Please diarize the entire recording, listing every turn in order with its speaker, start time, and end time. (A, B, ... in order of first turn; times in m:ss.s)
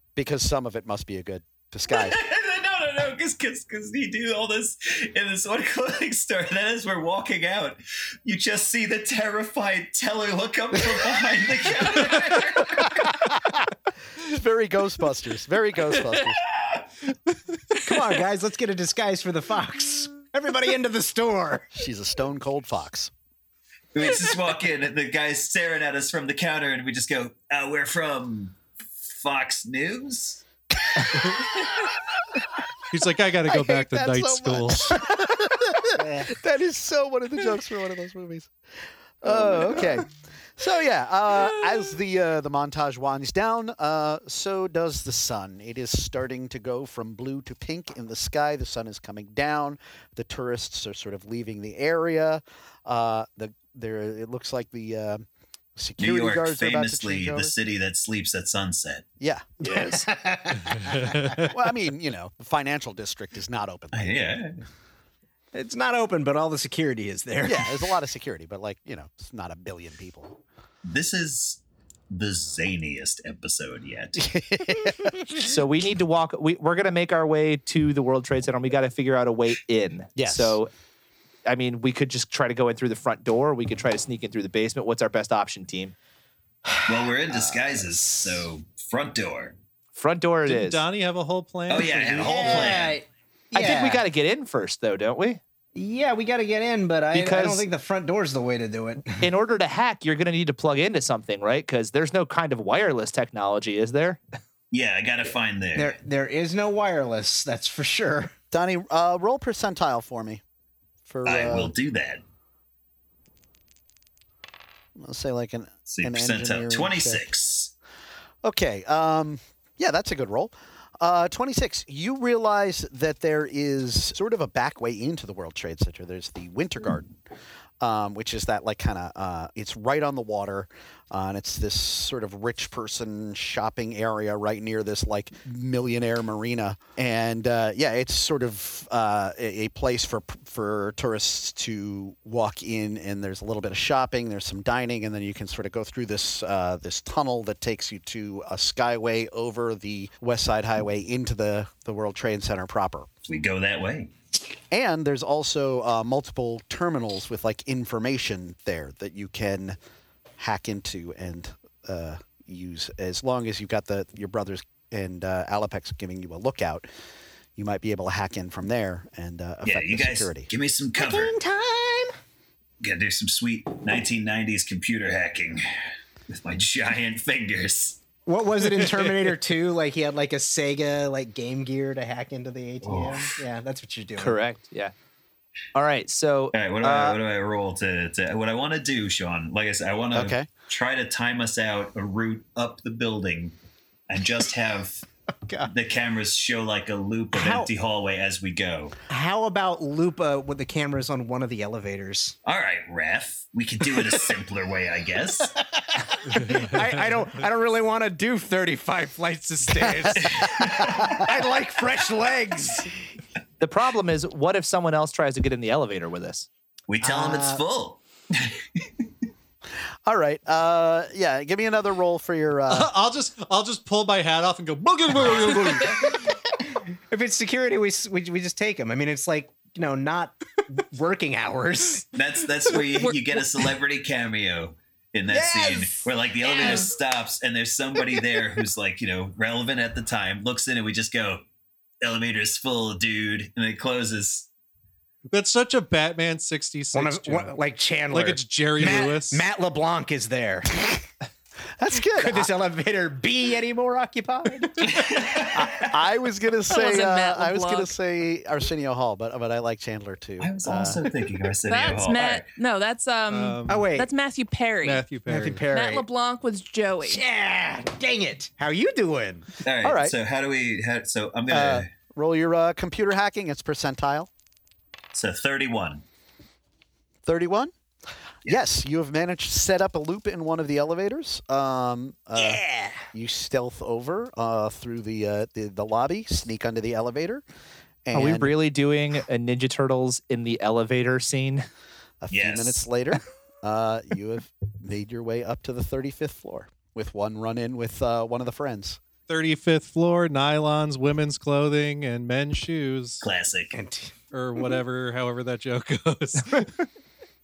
0:00.2-0:02.2 A
0:01.9-0:13.2 B
0:14.2-0:16.4 A
0:16.6-0:16.8 B
0:17.8-0:21.7 C
0:21.7-0:23.1 A
0:23.9-0:30.4 B
0:32.9-0:35.0 D
0:33.4-0:38.5 A
0:35.9-0:36.3 C
0:39.2-0:55.2 A
0:55.8-0:57.5 A
0:56.0-0:59.0 B
0:59.2-1:00.0 A
0:59.6-1:01.2 C
1:00.7-1:01.5 D
1:01.4-1:04.4 A
1:03.9-1:04.6 B
1:05.5-1:07.8 C
1:07.4-1:10.4 A
1:10.8-1:11.6 B
1:12.1-1:14.4 B
1:14.2-1:15.2 A
1:15.4-1:20.7 E
1:20.2-1:20.6 A
1:21.4-1:25.9 E
1:26.6-1:28.4 C
1:26.8-1:29.6 B
1:29.9-1:30.8 E
1:30.4-1:32.8 D
1:31.7-1:33.0 B
1:32.0-1:34.0 C
1:33.5-1:35.4 E
1:35.7-1:39.2 C
1:37.1-1:37.6 E
1:39.2-1:44.2 E
1:44.7-1:46.0 B
1:45.8-1:48.3 C
1:48.5-1:50.4 A
1:51.1-1:51.7 A
1:51.2-1:52.2 B
1:55.0-1:57.2 A
1:55.9-1:57.7 B
1:58.4-2:07.1 A
2:07.8-2:33.1 A
2:33.2-2:34.1 B
2:34.7-2:39.8 A
2:40.4-2:46.9 A
2:47.6-2:50.5 A
2:49.6-2:51.3 B
2:51.0-2:52.1 C
2:52.8-2:55.6 B
2:56.3-2:58.0 B
2:58.2-3:04.4 C
2:58.8-2:59.1 D
3:02.8-3:03.3 B
3:04.2-3:04.9 E
3:05.7-3:07.2 E
3:06.5-3:13.5 B
3:10.1-3:10.5 A
3:14.1-3:15.0 B
3:15.4-3:15.7 C
3:15.7-3:19.0 B
3:17.3-3:17.7 C
3:19.1-3:22.4 C
3:22.4-3:25.5 B
3:25.9-3:32.9 C
3:26.4-3:26.9 D
3:30.2-3:31.0 B
3:33.6-3:36.5 E
3:36.9-3:38.8 B
3:37.0-3:37.6 C
3:40.0-3:42.9 A
3:42.7-3:46.2 D
3:46.7-3:52.1 C
3:52.1-4:01.4 B
3:55.3-3:56.9 C
3:56.4-3:56.8 F
4:02.0-4:04.5 B
4:05.3-4:07.5 D
4:06.9-4:11.0 C
4:08.1-4:09.5 D
4:11.8-4:12.5 A
4:12.2-4:15.0 C
4:14.8-4:15.9 B
4:15.5-4:21.0 A
4:16.7-4:17.9 F
4:20.4-4:22.5 B
4:21.7-4:25.1 F
4:23.3-4:23.9 D
4:23.7-4:24.1 C
4:24.8-4:25.6 D
4:25.2-4:26.0 C
4:25.7-4:27.2 F
4:27.0-4:29.5 C
4:29.6-4:31.9 B
4:29.8-4:30.1 A
4:31.5-4:34.3 A
4:35.1-4:36.0 B
4:37.2-4:37.7 A
4:38.4-4:47.4 A
4:42.4-4:43.0 C
4:48.0-4:48.6 A
4:48.1-4:51.6 E
4:52.2-4:59.0 A
4:52.3-4:52.8 B
4:59.3-5:03.2 D
5:03.2-5:03.7 B
5:03.7-5:04.1 C
5:04.3-5:06.8 D